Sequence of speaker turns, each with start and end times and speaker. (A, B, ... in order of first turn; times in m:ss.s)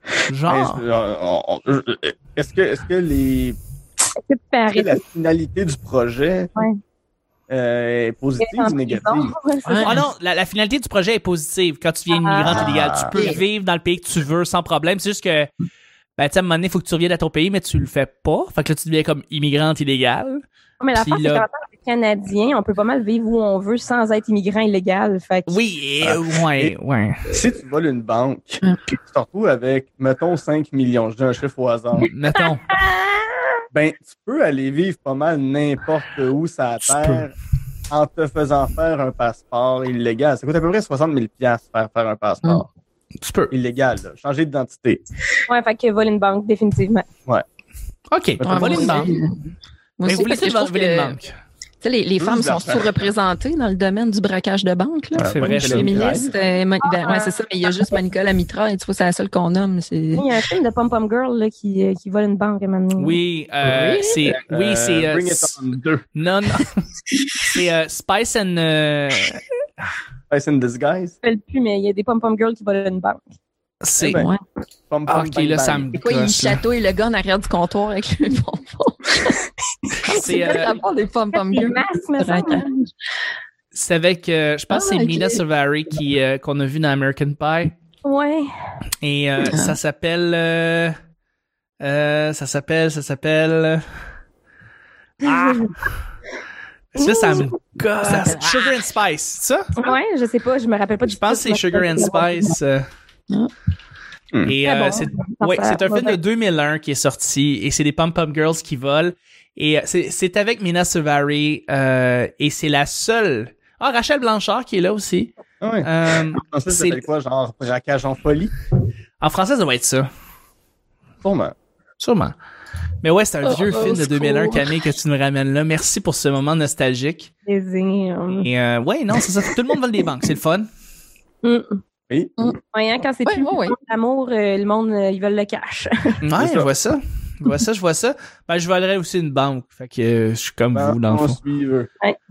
0:00.3-0:00.8 A
0:00.5-0:03.6 B
0:04.2-0:05.0 C
0:04.7-0:06.5 B
0:07.5-0:09.4 B
0:08.4-0:10.0 C
0:09.6-0:10.0 D
0:09.8-0:15.5 A
0:12.1-0:12.7 C
0:12.4-0:13.1 B
0:13.1-0:13.4 D
0:16.2-0:20.4 A
0:20.8-0:25.6 C
0:21.0-0:21.4 A
0:25.5-0:27.3 A
0:26.0-0:26.7 B
0:27.3-0:32.1 B
0:32.1-0:32.7 A
0:32.8-0:33.1 C
0:33.7-0:37.4 B
0:36.8-0:37.2 A
0:37.9-0:42.7 B
0:43.2-0:43.5 A
0:43.5-0:45.0 B
0:45.5-0:47.1 C
0:48.1-0:49.2 A
0:48.4-0:49.2 B
0:48.4-0:49.3 D
0:50.0-0:51.2 D
0:50.0-0:51.3 A
0:51.8-1:00.2 D
0:52.2-0:52.9 B
0:55.2-0:56.3 B
0:55.3-0:56.2 A
0:56.8-0:57.3 C
1:00.2-1:03.2 C
1:03.0-1:05.6 A
1:03.6-1:04.2 D
1:03.9-1:06.0 B
1:06.2-1:06.8 A
1:07.4-1:09.4 A
1:10.3-1:11.2 B
1:11.2-1:13.3 C
1:13.8-1:14.2 A
1:14.0-1:14.3 B
1:14.1-1:14.4 D
1:14.9-1:15.9 B
1:15.1-1:16.6 A
1:16.0-1:22.9 D
1:20.1-1:20.8 C
1:20.1-1:20.7 A
1:21.3-1:22.7 C
1:23.7-1:27.7 A
1:24.7-1:25.4 D
1:28.0-1:28.5 C
1:29.0-1:31.0 A
1:29.4-1:29.8 D
1:31.8-1:33.9 A
1:35.2-1:36.0 A
1:35.3-1:35.6 C
1:36.9-1:39.7 A
1:37.0-1:37.5 C
1:38.0-1:38.7 D
1:39.8-1:42.5 C
1:41.1-1:42.9 A
1:44.4-1:57.0 A
1:44.6-1:46.2 C
1:55.6-1:58.5 B
1:59.2-2:00.1 A
2:01.2-2:01.5 B
2:02.0-2:02.4 A
2:03.0-2:07.3 A
2:03.4-2:04.8 D
2:07.4-2:08.5 C
2:08.3-2:10.7 A
2:11.4-2:11.8 C
2:12.1-2:12.5 B
2:12.7-2:16.2 C
2:13.2-2:13.7 D
2:16.2-2:21.4 A
2:16.4-2:16.7 B
2:20.7-2:21.9 B